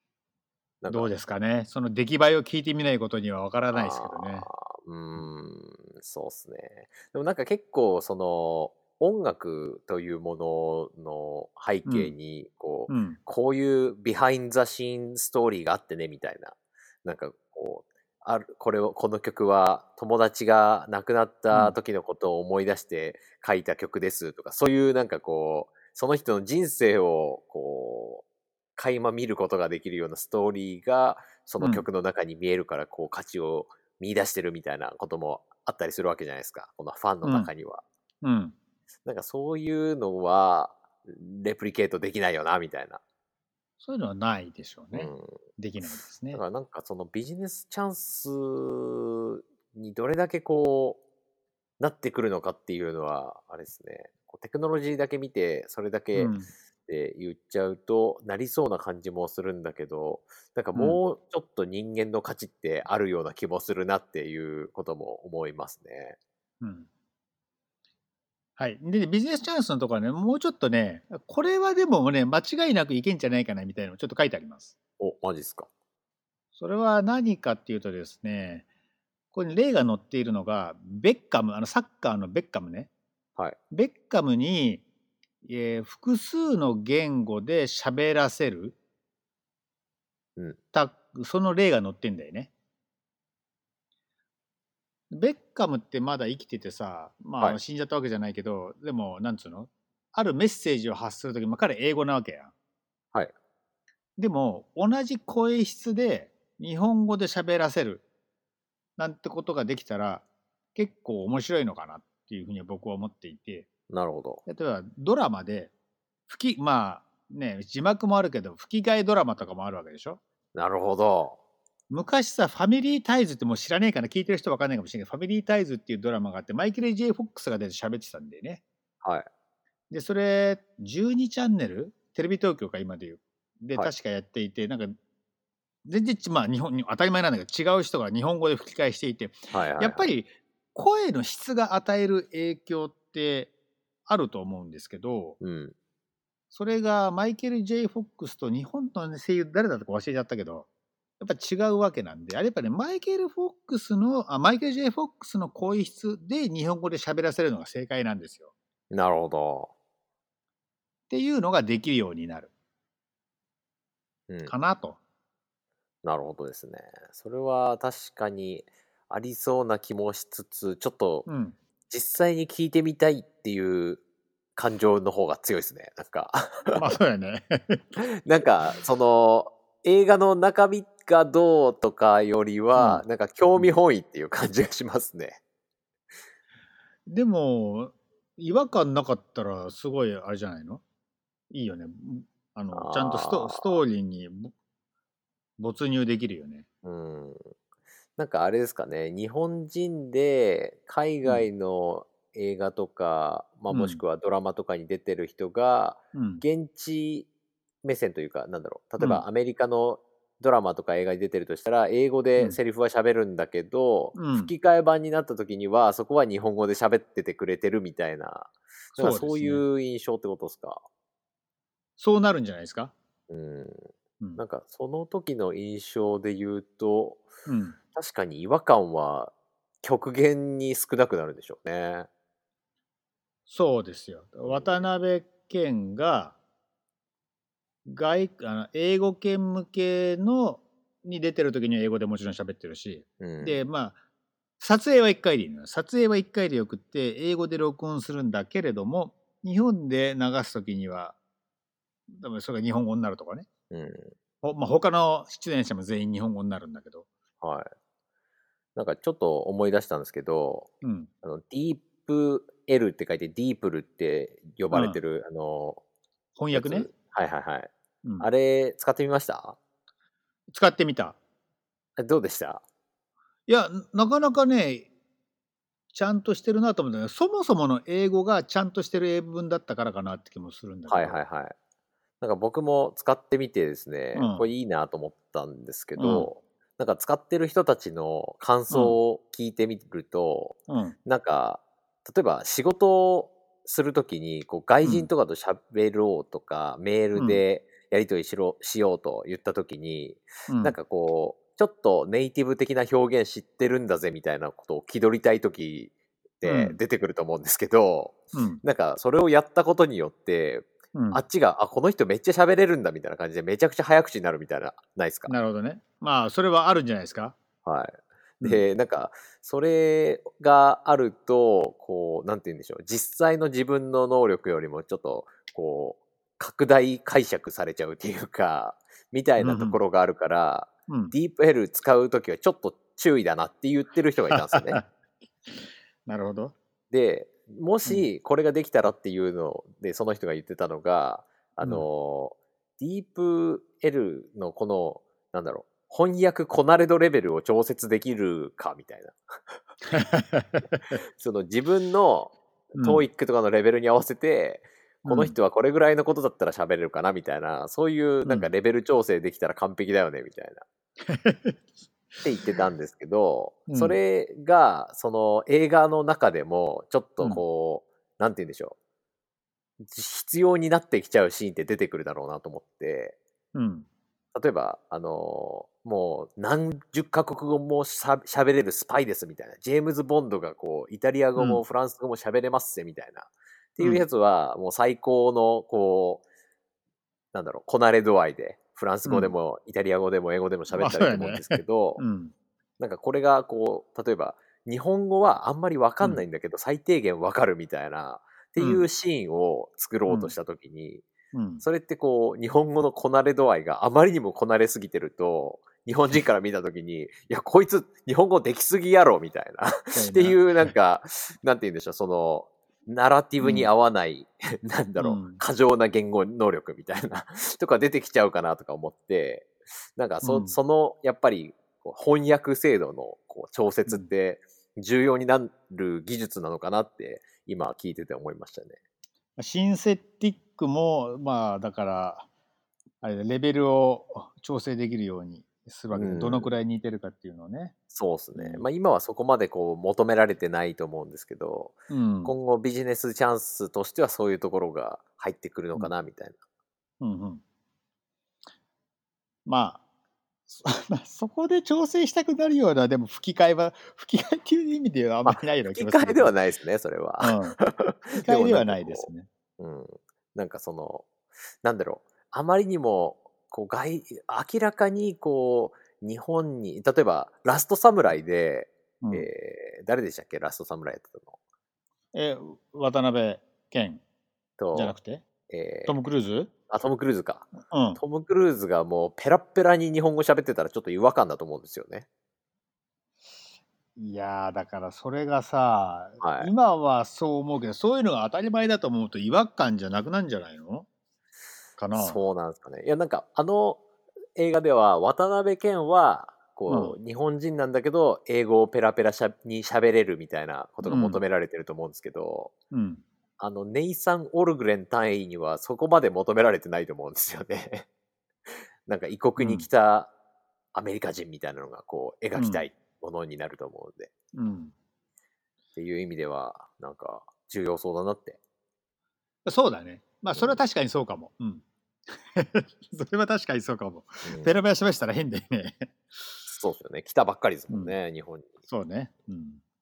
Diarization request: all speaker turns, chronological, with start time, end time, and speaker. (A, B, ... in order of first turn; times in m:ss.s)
0:00.8-0:01.1 A
0:00.9-0:04.5 B
0:03.7-0:28.2 A
0:11.8-0:12.1 B
0:12.9-0:13.2 B
0:28.8-0:37.8 A
0:31.6-0:31.9 B
0:37.2-0:37.5 B
0:38.2-0:38.5 B
0:39.0-0:43.0 A
0:43.8-0:46.4 B
0:44.9-0:45.4 A
0:46.3-0:51.0 A
0:51.8-0:56.3 A
0:56.2-0:56.5 B
0:56.9-1:06.2 A
1:00.8-1:01.0 B
1:06.6-1:06.9 B
1:08.6-1:14.8 B
1:15.0-1:15.7 A
1:16.6-1:18.6 B
1:19.3-1:22.9 B
1:23.7-1:24.8 B
1:25.4-1:28.8 B
1:30.7-1:32.5 B
1:35.1-1:42.5 B
1:44.2-1:48.0 B
1:49.0-1:53.7 B
1:53.9-1:54.4 A
1:54.5-1:55.7 B
1:56.3-2:00.2 B
2:00.6-2:01.4 A
2:01.9-2:08.6 B
2:09.0-2:09.3 A
2:09.9-2:15.0 B
2:15.8-2:23.5 B
2:19.5-2:20.1 A
2:24.1-2:25.4 B
2:25.4-2:25.7 A
2:26.5-2:30.7 B
2:31.2-2:38.5 B
2:38.9-2:39.7 A
2:41.1-2:42.5 B
2:44.5-2:45.0 B
2:46.0-2:51.3 A
2:51.3-2:51.6 B
2:51.9-2:54.0 A
2:54.6-2:56.8 A
2:56.8-2:57.8 B
2:58.0-3:05.4 A
3:02.8-3:03.0 B
3:07.1-3:10.8 B
3:11.5-3:14.5 B
3:12.7-3:13.8 A
3:15.6-3:16.6 B
3:16.8-3:17.5 A
3:18.2-3:27.3 A
3:23.7-3:24.0 B
3:26.1-3:26.4 B
3:27.8-3:40.8 A
3:34.2-3:34.5 B
3:38.9-3:39.6 B
3:42.0-3:42.9 B
3:43.3-3:47.3 A
3:47.5-3:47.8 B
3:47.9-3:52.1 A
3:53.5-3:56.4 B
3:54.5-3:54.8 A
3:57.8-4:04.0 B
4:03.2-4:03.6 A
4:04.6-4:11.2 B
4:12.1-4:13.5 B
4:13.7-4:14.1 A
4:14.4-4:17.1 B
4:17.4-4:17.7 A
4:18.8-4:20.7 A
4:20.8-4:21.1 B
4:21.2-4:25.8 A
4:24.7-4:25.0 B
4:26.4-4:26.9 B
4:26.5-4:29.6 A
4:30.5-4:31.2 B
4:32.0-4:32.6 A
4:33.5-4:34.9 B
4:35.9-4:41.2 B
4:40.9-4:41.5 A
4:42.2-5:15.3 A
4:44.1-4:44.5 B
4:46.0-4:46.3 B
4:48.7-4:49.0 B
4:50.7-4:51.0 B
4:54.8-4:55.1 B
4:57.2-4:57.4 B
5:00.5-5:00.8 B
5:06.4-5:06.8 B
5:08.3-5:08.6 B
5:11.0-5:11.2 B
5:15.3-5:17.4 B
5:17.6-5:34.8 A
5:29.4-5:29.8 B
5:30.9-5:31.1 B
5:34.5-5:34.8 B
5:35.5-5:36.6 B
5:36.9-5:49.6 A
5:49.9-5:50.9 B
5:51.2-6:00.6 A
5:52.8-5:53.0 B
5:55.1-5:55.4 B
5:58.2-5:58.5 B
6:01.1-6:01.6 B
6:02.2-6:08.8 A
6:03.7-6:04.0 B
6:09.8-6:13.2 A
6:13.5-6:13.9 B
6:14.4-6:26.2 A
6:21.4-6:21.6 B
6:27.3-6:32.0 A
6:29.1-6:29.3 B
6:30.7-6:32.3 B
6:32.8-6:41.1 A
6:38.6-6:38.9 B
6:40.1-6:40.3 B
6:41.3-6:41.6 B
6:41.6-7:08.8 A
6:49.9-6:50.7 B
6:53.4-6:53.7 B
6:55.0-6:55.4 B
7:00.2-7:00.6 B
7:09.4-7:12.3 B
7:13.0-7:17.7 B
7:15.9-7:16.6 A
7:17.9-7:26.4 A
7:18.4-7:18.7 B
7:21.9-7:22.3 B
7:27.0-7:27.4 B
7:29.5-7:29.8 B
7:30.5-7:36.3 B
7:35.2-7:41.1 A
7:37.2-7:37.6 B
7:38.2-7:39.3 B
7:41.6-7:51.4 A
7:49.0-7:49.3 B
7:52.1-7:54.0 B
7:54.6-7:55.0 A
7:54.7-7:55.2 B
7:55.5-7:56.0 A
7:55.9-7:56.5 B
7:56.7-8:02.1 A
7:57.7-7:58.0 B
8:04.0-8:10.9 B
8:06.2-8:06.5 A
8:11.8-8:12.2 B
8:11.9-8:13.8 A
8:14.4-8:22.5 A
8:16.7-8:17.0 B
8:20.8-8:21.2 B
8:22.7-8:23.0 B
8:23.4-8:27.9 A
8:28.5-8:30.1 A
8:29.4-8:29.7 B
8:30.7-8:34.1 A
8:32.4-8:32.7 B
8:34.3-8:34.7 B
8:35.8-8:38.4 A
8:39.4-8:46.0 B
8:40.4-8:40.6 A
8:44.2-8:44.5 A
8:46.4-8:48.5 A
8:47.7-8:48.0 B
8:48.7-8:49.6 B